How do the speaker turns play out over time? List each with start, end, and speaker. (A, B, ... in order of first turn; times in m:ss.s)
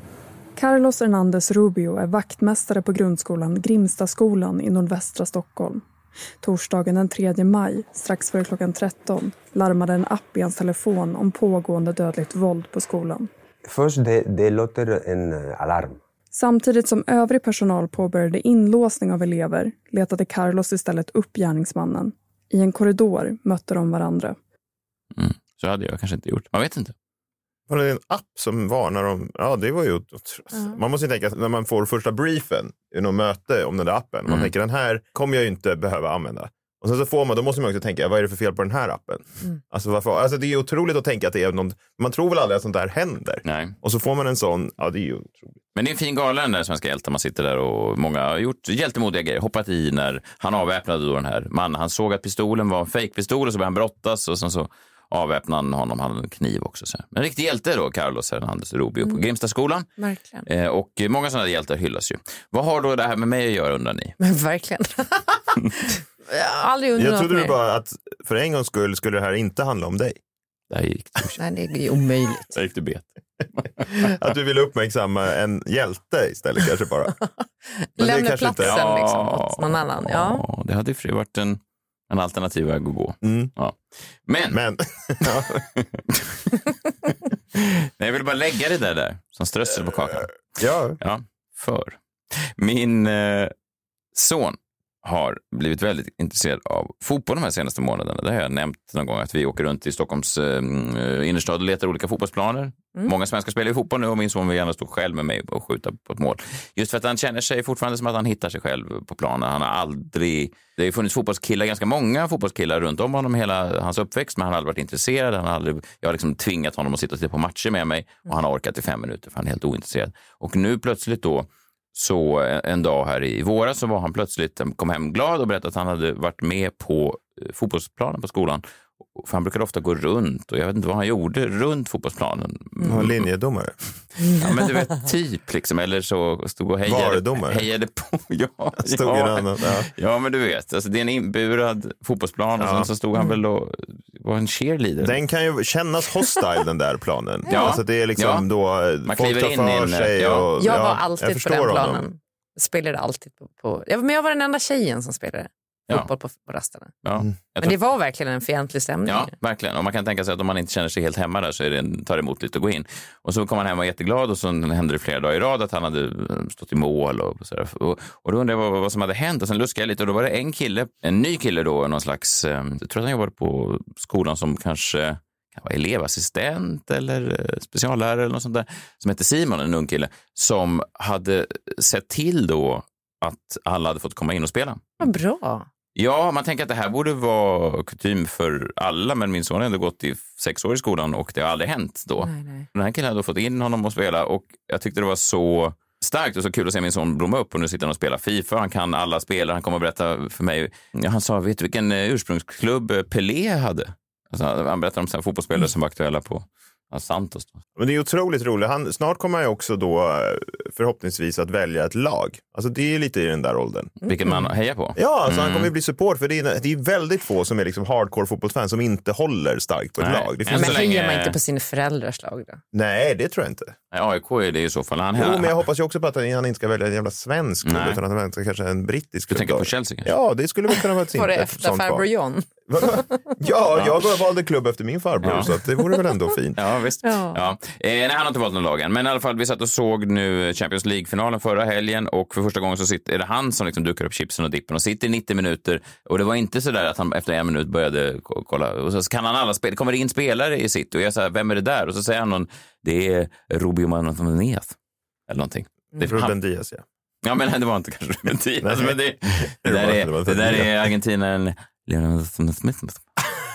0:00.6-0:05.8 A
0:06.4-0:13.3 A
0:13.7-0:16.0 B
0:16.3-0:24.4 A
0:25.2-0:26.9 C
0:27.7-0:45.6 D
0:34.3-0:34.5 C
0:43.4-0:43.8 C
0:45.8-0:59.9 C
1:00.0-1:00.4 E
1:00.4-1:04.2 C
1:04.2-1:07.6 E
1:07.0-1:10.2 D
1:10.7-1:11.4 C
1:11.4-1:12.6 E
1:12.5-1:14.1 C
1:13.9-1:17.2 D
1:18.0-1:20.4 E
1:18.0-1:18.8 D
1:18.6-1:24.6 C
1:23.2-1:23.5 D
1:24.5-1:25.6 D
1:25.8-1:26.5 C
1:27.6-1:30.4 C
1:30.6-1:31.0 D
1:31.0-1:33.5 C
1:34.1-2:13.3 C
2:12.8-2:13.8 D
2:14.3-2:25.2 C
2:16.9-2:17.7 D
2:18.8-2:19.9 D
2:22.6-2:22.9 D
2:25.0-2:32.0 D
2:27.5-2:28.5 C
2:29.0-2:30.5 C
2:30.6-2:36.9 E
2:37.0-2:37.8 C
2:37.6-2:39.3 E
2:39.1-3:05.0 C
3:05.0-3:05.7 E
3:06.0-3:27.6 C
3:12.2-3:12.7 E
3:27.8-3:34.0 D
3:34.0-3:35.7 C
3:35.0-3:40.8 D
3:40.0-3:41.4 C
3:40.5-3:42.6 E
3:42.7-3:43.8 D
3:43.9-3:45.6 C
3:45.2-3:52.1 D
3:47.6-3:48.0 C
3:49.3-3:50.1 C
3:51.1-3:53.2 E
3:52.7-3:56.6 D
3:55.2-3:55.6 C
3:56.6-4:14.8 C
3:57.0-3:57.4 E
4:15.3-4:16.3 C
4:16.0-4:16.8 D
4:17.2-4:23.1 C
4:18.6-4:20.9 D